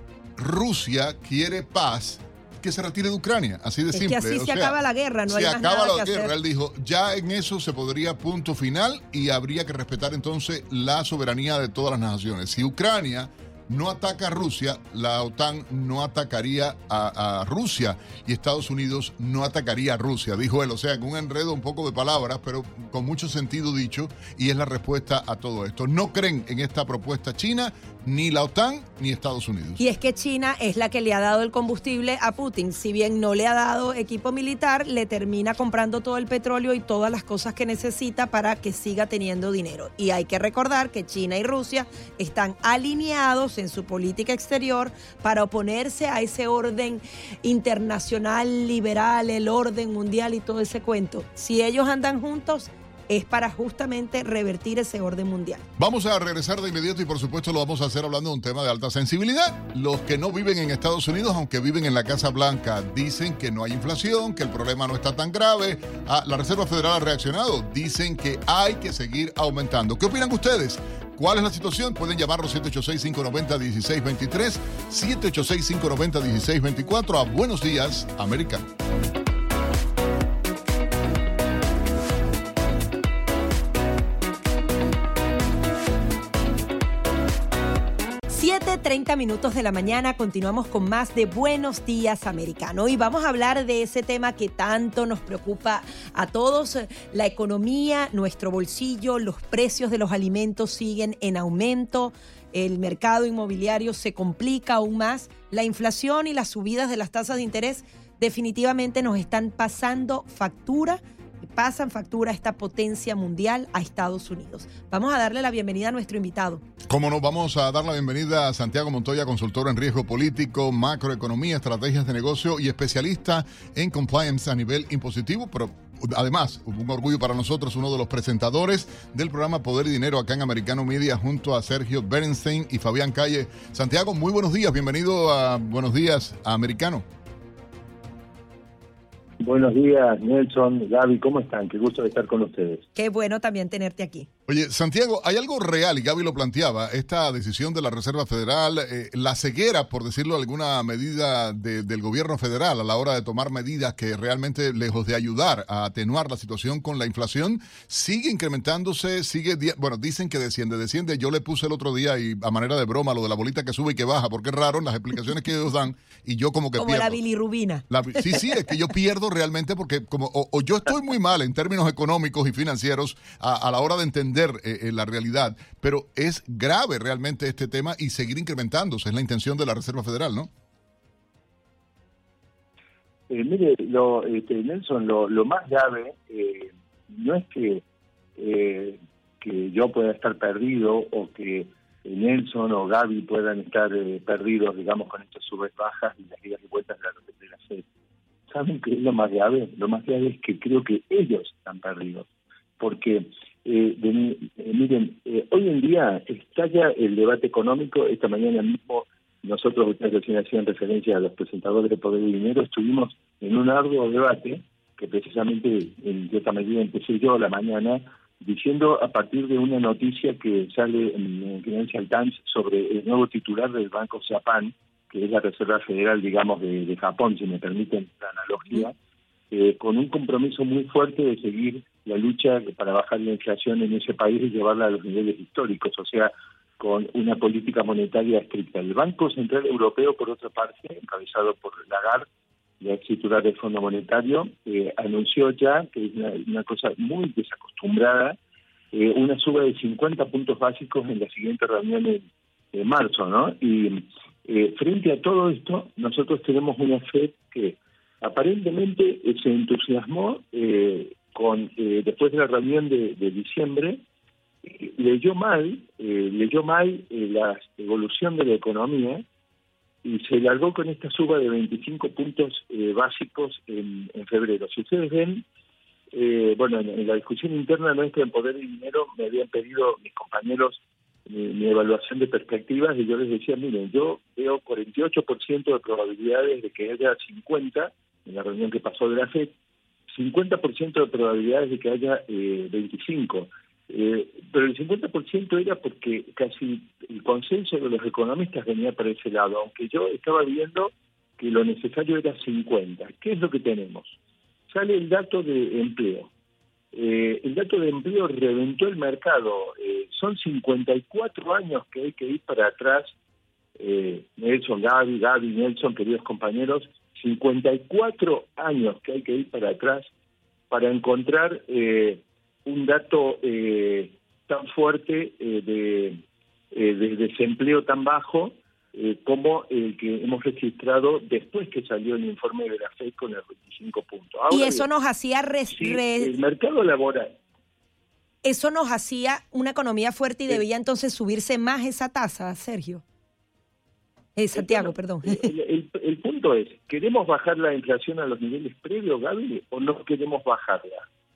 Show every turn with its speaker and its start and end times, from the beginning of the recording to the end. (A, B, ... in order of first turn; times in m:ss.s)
0:00.4-0:04.8 A
0:03.9-0:06.3 B
0:05.3-0:29.8 A
0:29.8-0:55.6 B
0:55.8-1:18.7 A
1:28.3-1:56.6 B
1:56.9-2:17.0 A
2:19.4-2:22.8 C
2:23.0-2:24.3 B
2:24.5-2:47.2 A
2:46.8-2:48.5 B
2:47.9-3:00.5 A
3:03.3-3:07.8 C
3:08.4-3:17.8 C
3:18.5-3:22.3 C
3:22.8-3:48.9 C
3:49.5-4:02.3 C
4:02.8-4:08.4 C
4:08.9-4:12.2 C
4:12.7-4:24.0 C
4:24.6-4:29.2 C
4:30.0-4:35.4 C
4:36.1-4:49.6 C
4:50.1-5:04.2 C
5:04.7-5:06.3 C
5:06.9-5:13.1 C
5:13.8-5:20.1 C
5:20.7-5:34.9 C
5:34.5-5:36.3 B
5:35.7-5:37.4 C
5:38.4-5:43.0 B
5:44.4-5:45.5 B
5:44.5-5:51.1 C